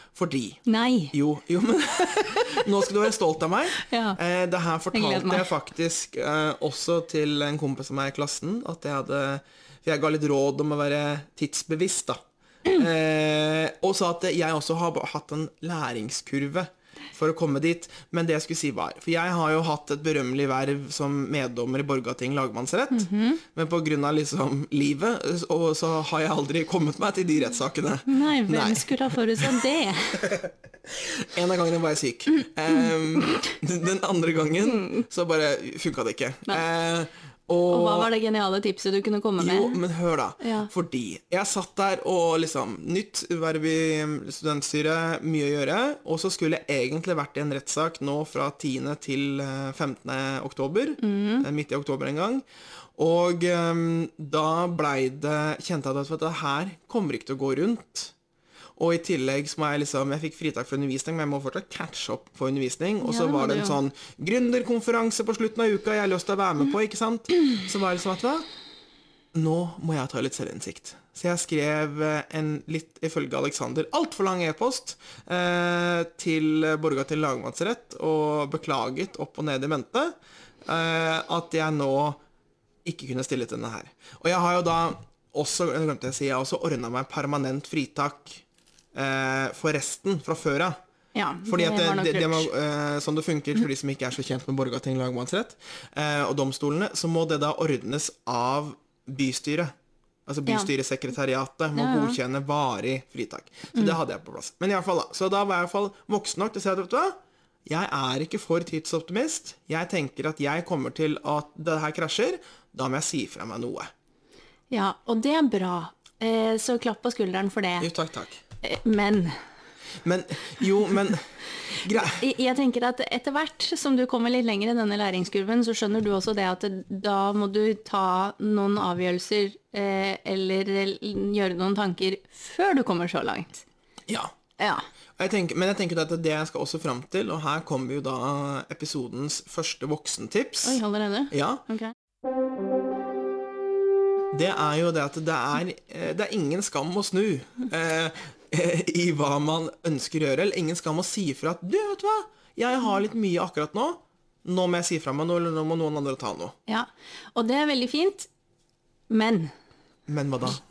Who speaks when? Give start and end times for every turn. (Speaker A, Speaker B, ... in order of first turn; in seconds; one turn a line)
Speaker A: 0.2-0.6
Speaker B: 0.7-1.1
Speaker A: 1.1-29.6
Speaker B: 3.9-4.2
Speaker B: 4.9-5.5
Speaker B: 22.9-23.4
Speaker B: 28.1-30.2
Speaker A: 30.2-38.1
Speaker B: 34.6-35.0
Speaker B: 37.7-39.8
Speaker A: 39.4-52.4
Speaker B: 40.4-40.7
Speaker B: 51.0-51.5
Speaker A: 53.0-58.1
Speaker A: 58.8-68.5
Speaker B: 63.0-63.8
Speaker A: 69.3-80.1
Speaker A: 80.7-82.2
Speaker A: 82.8-88.4
Speaker A: 89.0-90.8
Speaker B: 91.2-92.5
Speaker A: 91.5-99.7
Speaker A: 100.3-113.9
Speaker B: 101.8-102.2
Speaker B: 114.7-117.9
Speaker A: 117.8-118.4
Speaker B: 118.6-119.4
Speaker A: 120.0-122.2
Speaker B: 121.9-133.6
Speaker A: 134.1-134.3
Speaker B: 134.6-134.8
Speaker A: 135.2-141.6
Speaker B: 140.6-141.9
Speaker A: 144.3-156.6
Speaker B: 156.7-158.3
Speaker B: 159.1-159.5
Speaker A: 160.1-160.6